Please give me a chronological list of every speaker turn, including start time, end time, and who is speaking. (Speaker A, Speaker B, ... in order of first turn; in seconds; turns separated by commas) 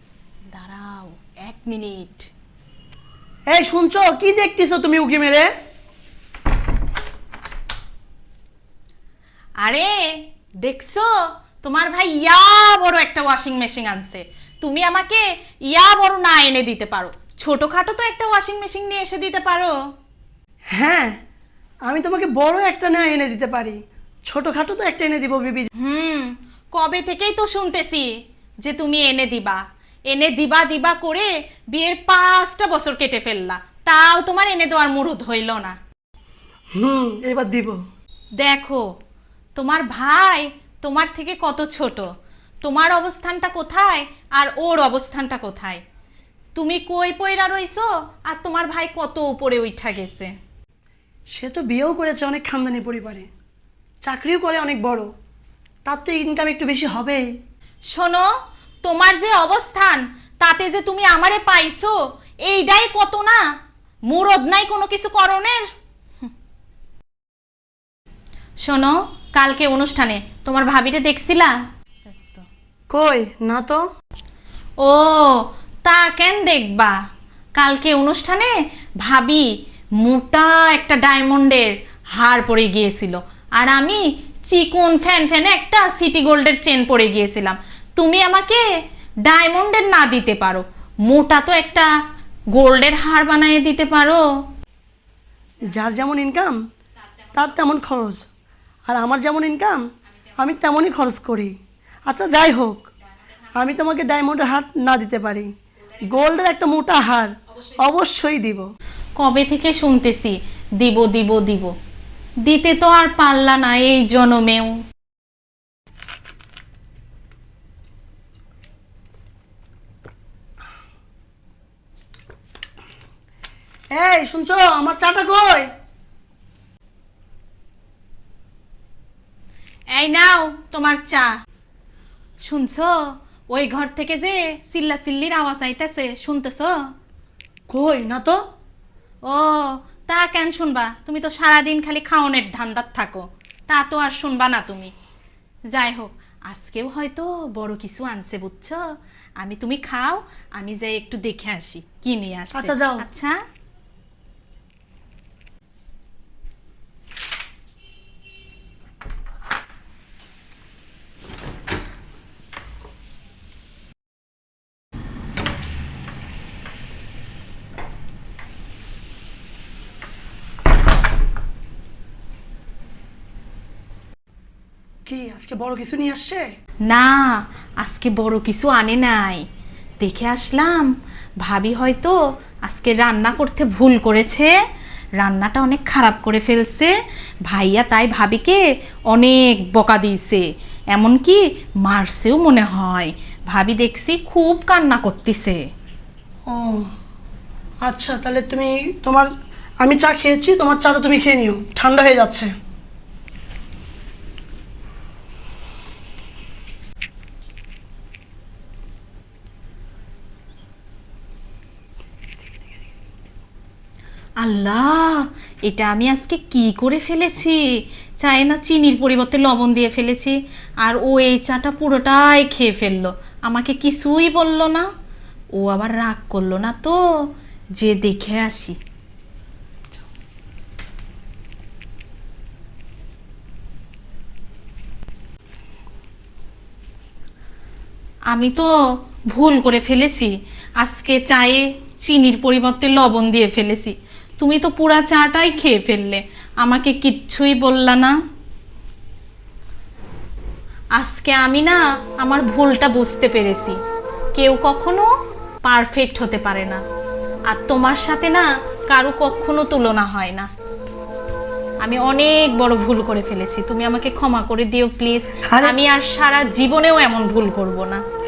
Speaker A: 0.5-2.3, Speaker B: 3.5-5.5, Speaker A: 9.6-19.8, Speaker B: 20.7-21.2, Speaker B: 21.9-25.7, Speaker A: 25.8-28.1, Speaker A: 28.6-35.8, Speaker B: 36.8-37.8, Speaker A: 38.4-38.8, Speaker A: 39.5-42.1, Speaker A: 42.6-45.8, Speaker A: 46.5-50.3, Speaker B: 51.3-53.3, Speaker B: 54.0-55.1, Speaker B: 55.8-57.2, Speaker A: 57.9-58.3, Speaker A: 58.8-63.4, Speaker A: 64.1-65.6, Speaker A: 68.6-71.6, Speaker A: 72.2-72.5, Speaker B: 72.9-73.8, Speaker A: 74.8-77.0, Speaker A: 77.5-79.5, Speaker A: 80.0-88.7, Speaker A: 89.2-91.9, Speaker A: 92.5-94.2, Speaker B: 95.7-96.5, Speaker B: 97.3-98.3, Speaker B: 98.9-99.8, Speaker B: 100.4-101.5, Speaker B: 102.1-102.9, Speaker B: 103.5-105.5, Speaker B: 106.1-108.6, Speaker A: 109.2-111.7, Speaker A: 112.4-114.8, Speaker B: 123.9-125.7, Speaker A: 129.9-131.3, Speaker A: 132.4-136.8, Speaker B: 137.7-138.4, Speaker A: 139.2-144.9, Speaker A: 145.7-148.8, Speaker A: 149.4-153.3, Speaker B: 152.5-153.1, Speaker B: 175.1-176.5, Speaker A: 176.9-179.4, Speaker A: 180.0-180.9, Speaker A: 181.4-184.5, Speaker A: 185.2-186.9, Speaker A: 187.4-195.6, Speaker B: 196.5-196.8, Speaker B: 197.8-199.3, Speaker B: 199.8-202.5, Speaker A: 214.4-224.9, Speaker A: 225.5-228.8, Speaker A: 238.3-238.7, Speaker A: 239.3-248.2, Speaker A: 250.9-253.8, Speaker A: 254.3-255.1, Speaker A: 255.6-256.8, Speaker A: 257.5-260.5, Speaker A: 261.8-268.0, Speaker B: 265.5-265.8